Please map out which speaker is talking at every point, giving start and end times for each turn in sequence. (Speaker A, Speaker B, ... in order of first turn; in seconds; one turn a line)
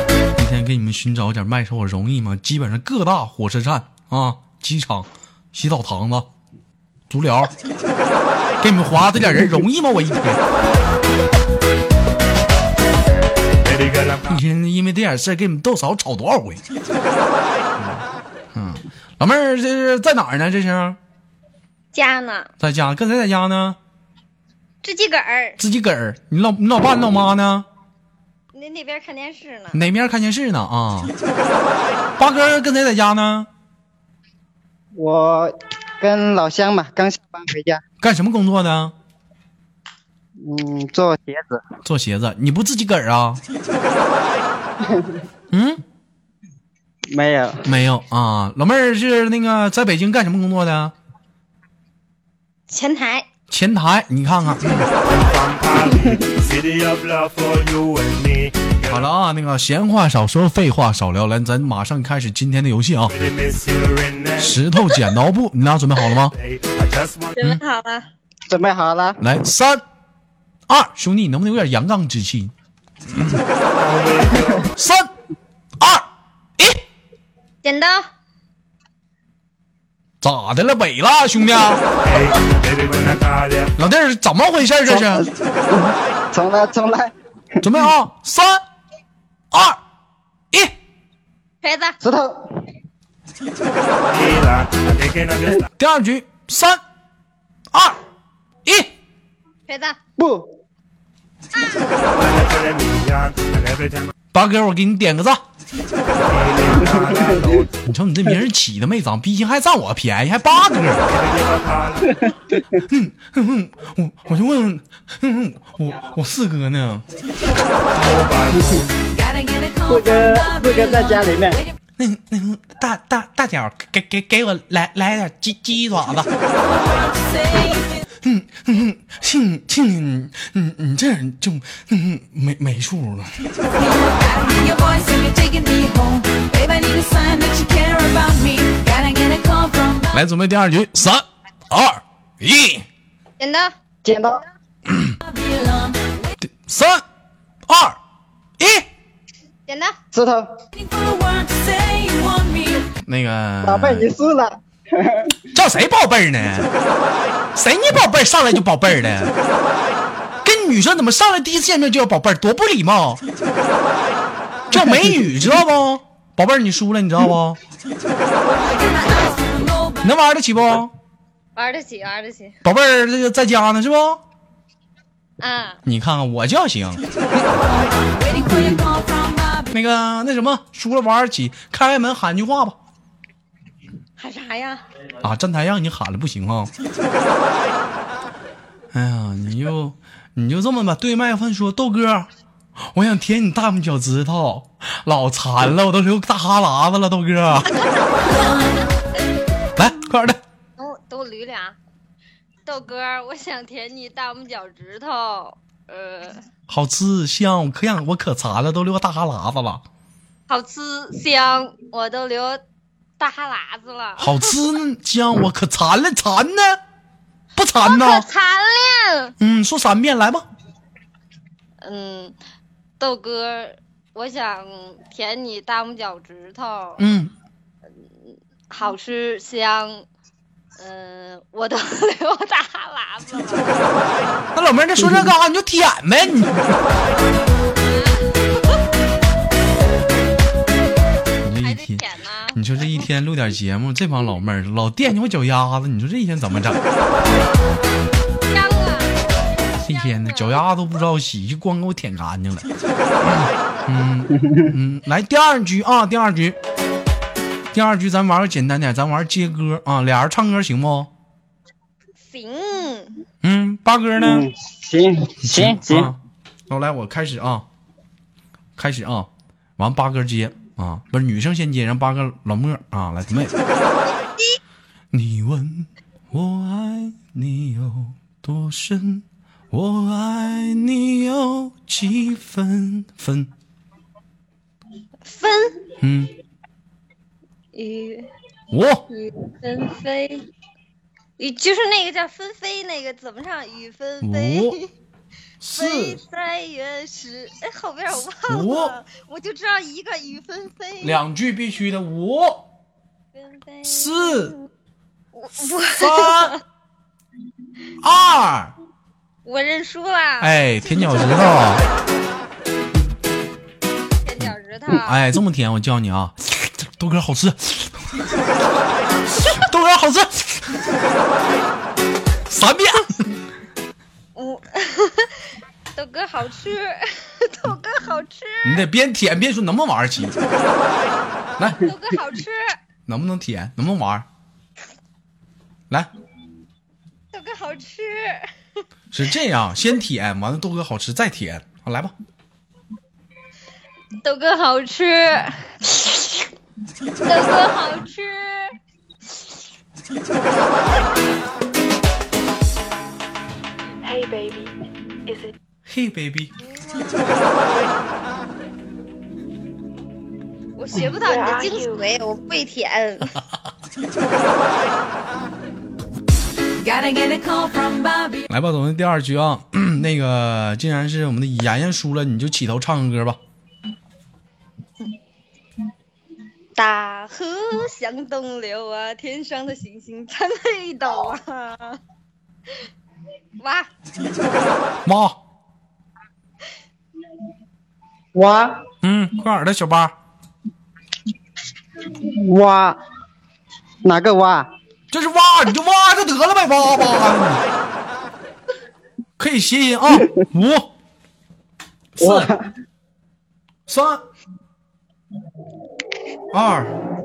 Speaker A: 0.4-6.3
Speaker A: 7.1-7.5
Speaker A: 8.6-10.4
Speaker B: 13.7-14.2
Speaker A: 14.3-16.6
Speaker A: 17.8-18.0
Speaker A: 18.5-21.0
Speaker C: 21.9-22.5
Speaker A: 22.6-23.8
Speaker C: 24.8-25.6
Speaker A: 25.6-27.7
Speaker C: 28.5-29.8
Speaker A: 29.7-31.1
Speaker A: 32.2-33.5
Speaker D: 34.9-37.8
Speaker A: 38.0-38.9
Speaker D: 40.4-41.6
Speaker A: 41.8-43.4
Speaker D: 44.8-45.2
Speaker A: 45.5-45.8
Speaker D: 47.1-47.6
Speaker A: 47.6-50.9
Speaker C: 52.7-53.3
Speaker A: 53.5-54.9
Speaker B: 55.1-58.9
Speaker A: 58.9-63.2
Speaker B: 63.2-64.4
Speaker A: 64.4-66.3
Speaker B: 66.4-67.3
Speaker C: 67.3-68.1
Speaker D: 68.5-69.2
Speaker A: 69.2-69.8
Speaker A: 70.7-72.5
Speaker B: 73.7-74.6
Speaker A: 74.8-75.1
Speaker A: 75.8-76.1
Speaker C: 77.6-78.1
Speaker A: 80.2-81.8
Speaker B: 82.1-83.7
Speaker A: 83.8-85.2
Speaker D: 84.9-87.1
Speaker A: 87.6-88.6
Speaker A: 89.5-89.8
Speaker C: 91.6-92.0
Speaker D: 92.0-92.5
Speaker B: 94.2-95.6
Speaker A: 95.8-96.8
Speaker A: 97.7-98.0
Speaker A: 98.7-98.9
Speaker C: 99.7-100.0
Speaker D: 100.2-100.5
Speaker C: 101.5-102.2
Speaker B: 102.4-104.1
Speaker A: 104.3-105.4
Speaker B: 106.3-107.6
Speaker A: 107.8-111.2
Speaker B: 111.3-112.0
Speaker A: 112.8-117.0
Speaker B: 118.0-118.6
Speaker D: 119.9-121.6
Speaker A: 122.0-126.3
Speaker E: 126.8-127.8
Speaker A: 128.2-133.5
Speaker E: 133.9-140.1
Speaker A: 140.1-142.9
Speaker C: 143.4-143.7
Speaker D: 144.0-144.4
Speaker A: 144.9-145.2
Speaker E: 145.3-146.0
Speaker A: 146.4-147.0
Speaker A: 147.7-148.0
Speaker A: 148.6-148.9
Speaker C: 149.7-150.0
Speaker D: 150.1-150.5
Speaker E: 150.8-152.8
Speaker A: 153.0-154.1
Speaker D: 153.6-155.4
Speaker A: 155.6-156.7
Speaker A: 157.6-159.3
Speaker A: 160.4-163.2
Speaker A: 164.7-167.6
Speaker C: 168.7-169.3
Speaker A: 170.0-170.9
Speaker C: 171.6-172.6
Speaker A: 172.6-174.2
Speaker C: 175.4-175.8
Speaker A: 175.8-177.5
Speaker E: 178.1-179.6
Speaker A: 179.7-182.8
Speaker C: 184.2-184.8
Speaker A: 185.2-186.7
Speaker A: 188.9-192.3
Speaker A: 192.9-197.7
Speaker A: 199.8-200.4
Speaker C: 200.8-201.8
Speaker C: 202.6-206.4
Speaker A: 206.7-209.8
Speaker C: 210.5-212.6
Speaker C: 213.2-214.5
Speaker A: 214.2-216.8
Speaker A: 217.6-218.3
Speaker C: 217.8-219.3
Speaker A: 219.4-220.4
Speaker C: 221.8-222.4
Speaker C: 223.0-227.1
Speaker A: 227.0-227.3
Speaker C: 228.2-230.1
Speaker C: 230.8-233.8
Speaker A: 234.5-236.8
Speaker C: 237.8-238.6
Speaker A: 241.4-246.8
Speaker C: 241.6-242.6
Speaker C: 248.5-250.6
Speaker A: 249.8-252.7
Speaker A: 253.2-256.6
Speaker A: 257.7-261.1
Speaker C: 262.3-263.2
Speaker A: 263.4-264.4
Speaker D: 264.2-266.1
Speaker A: 265.4-266.2
Speaker A: 266.7-267.7
Speaker A: 268.8-273.5
Speaker C: 274.1-274.6
Speaker A: 275.1-283.5
Speaker C: 285.2-285.8
Speaker A: 286.0-286.3
Speaker C: 287.7-288.3
Speaker A: 288.7-289.1
Speaker C: 289.1-290.4
Speaker C: 291.4-294.9
Speaker A: 294.2-294.8
Speaker A: 295.6-296.2
Speaker C: 295.7-301.2
Speaker A: 298.5-298.9
Speaker A: 301.0-302.7
Speaker C: 303.3-304.7
Speaker A: 303.9-304.5
Speaker C: 305.3-306.6
Speaker A: 305.8-306.6
Speaker A: 308.0-308.8
Speaker C: 309.4-311.8
Speaker A: 310.4-311.8
Speaker C: 314.2-315.2
Speaker A: 314.4-318.1
Speaker A: 319.3-320.9
Speaker A: 322.5-323.3
Speaker C: 324.4-325.4
Speaker C: 325.9-328.9
Speaker A: 328.6-330.4
Speaker A: 331.6-331.9
Speaker C: 331.6-332.8
Speaker A: 333.1-334.2
Speaker C: 337.3-338.5
Speaker A: 339.1-342.1
Speaker C: 344.2-346.4
Speaker C: 347.2-348.8
Speaker F: 354.0-354.7
Speaker F: 355.2-355.5
Speaker A: 355.9-356.5
Speaker C: 356.6-357.9
Speaker C: 360.8-363.4
Speaker F: 361.0-362.0
Speaker E: 366.8-368.4
Speaker A: 368.5-373.4
Speaker C: 376.8-382.0
Speaker C: 383.6-383.9
Speaker A: 385.0-385.4
Speaker D: 388.3-388.8
Speaker A: 389.0-390.1
Speaker D: 392.4-393.0
Speaker D: 394.0-394.7
Speaker A: 395.1-397.6
Speaker A: 399.4-400.9
Speaker A: 402.1-402.5
Speaker D: 402.2-402.7
Speaker A: 403.9-404.2
Speaker A: 406.5-406.9